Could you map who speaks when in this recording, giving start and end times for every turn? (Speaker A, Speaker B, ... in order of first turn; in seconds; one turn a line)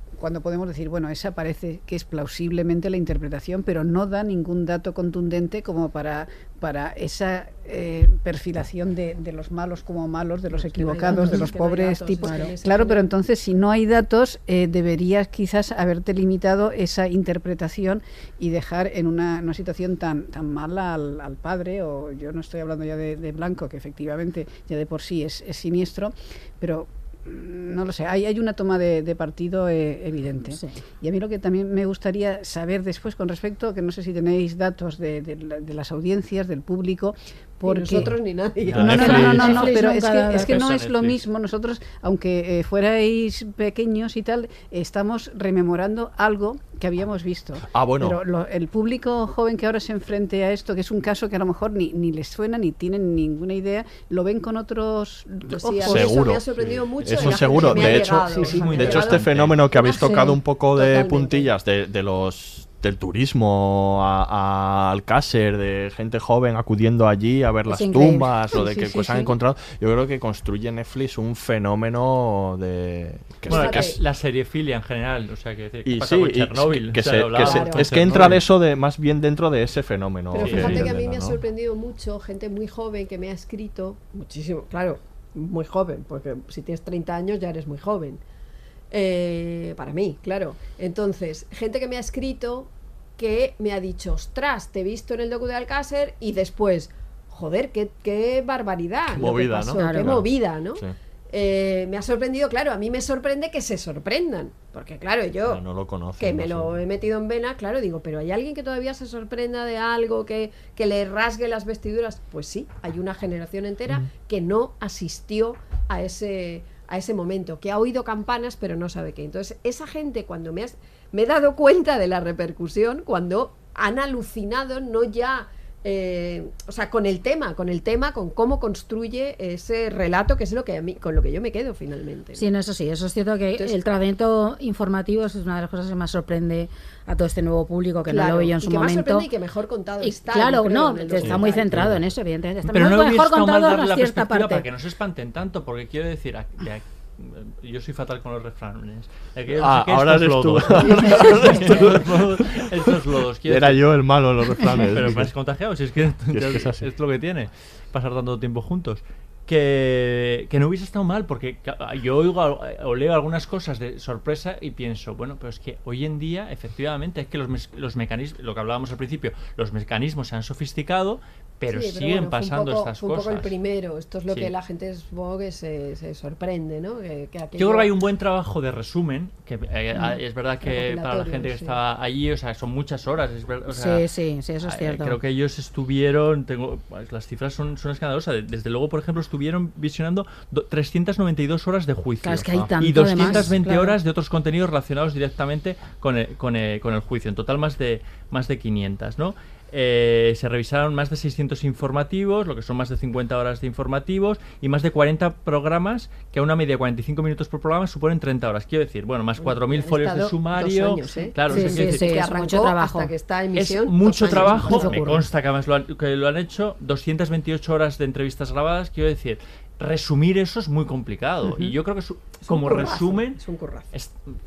Speaker A: 0.2-38.1
Speaker B: 10.5-13.1
Speaker C: 11.1-11.5
Speaker C: 12.2-12.5
Speaker C: 30.5-30.8
Speaker B: 37.6-39.6
Speaker D: 38.7-39.8
Speaker A: 38.8-56.1
Speaker C: 38.8-40.6
Speaker D: 40.4-41.2
Speaker E: 47.6-48.2
Speaker B: 55.5-61.5
Speaker E: 55.9-74.0
Speaker D: 57.0-59.6
Speaker A: 58.3-59.0
Speaker C: 67.7-69.3
Speaker A: 68.9-69.2
Speaker B: 73.5-74.0
Speaker D: 73.5-78.4
Speaker E: 75.8-81.4
Speaker B: 77.4-78.4
Speaker B: 80.3-88.2
Speaker D: 80.4-80.9
Speaker B: 88.9-105.6
Speaker E: 99.1-100.9
Speaker C: 99.8-100.1
Speaker E: 105.5-106.8
Speaker B: 106.2-132.4
Speaker C: 132.4-139.3
Speaker B: 138.1-142.0
Speaker C: 140.0-144.7
Speaker E: 141.2-141.9
Speaker D: 142.7-153.9
Speaker E: 149.5-152.9
Speaker E: 153.5-155.3
Speaker D: 154.7-173.5
Speaker E: 156.3-156.8
Speaker B: 171.7-177.9
Speaker D: 177.6-184.1
Speaker B: 180.6-181.8
Speaker C: 183.7-185.2
Speaker D: 184.6-212.1
Speaker C: 192.2-194.0
Speaker B: 209.4-215.2
Speaker C: 211.5-213.1
Speaker D: 213.5-223.4
Speaker C: 214.3-215.2
Speaker B: 222.5-223.9